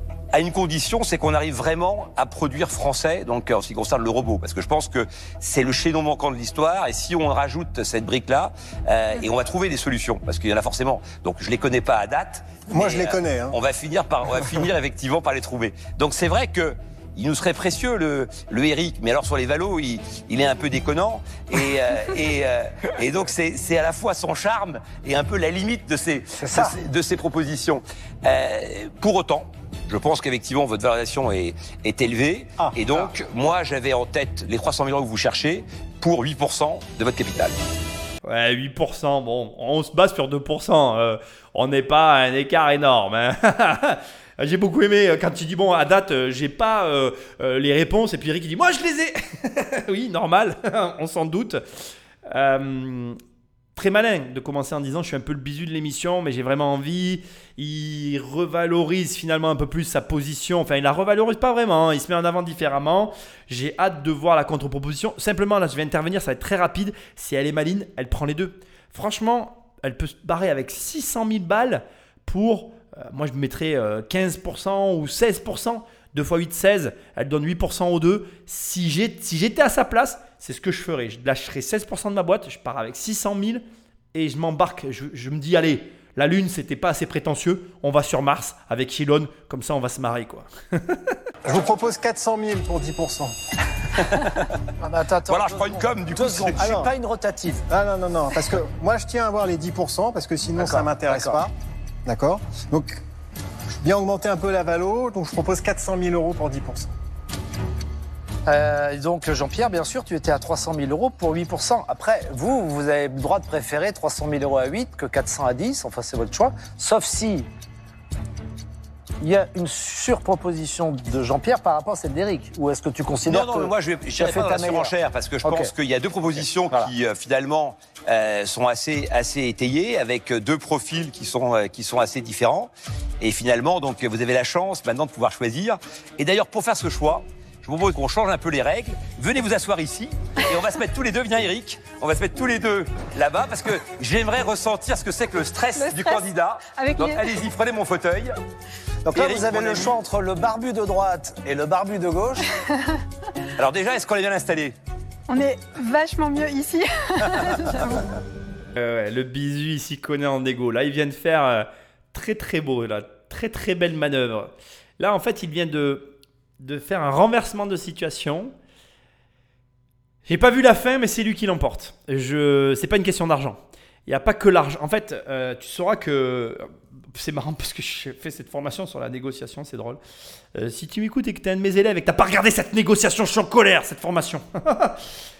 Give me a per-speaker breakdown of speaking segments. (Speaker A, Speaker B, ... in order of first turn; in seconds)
Speaker A: 0.3-37.5, 95.2-96.7, 123.2-148.3, 149.1-150.0, 153.6-154.8
Speaker B: 12.7-13.6, 91.4-93.3, 96.5-96.9, 97.7-101.5, 102.0-103.0, 103.8-106.9
Speaker C: 26.4-26.8, 94.8-97.6, 100.6-101.4, 108.5-117.5, 119.2-125.7, 126.4-126.9, 149.0-152.4
Speaker D: 38.2-53.2, 53.8-91.0, 158.8-168.5, 170.2-180.0, 180.5-185.0
Speaker E: 145.7-147.3, 152.7-152.9, 155.3-158.0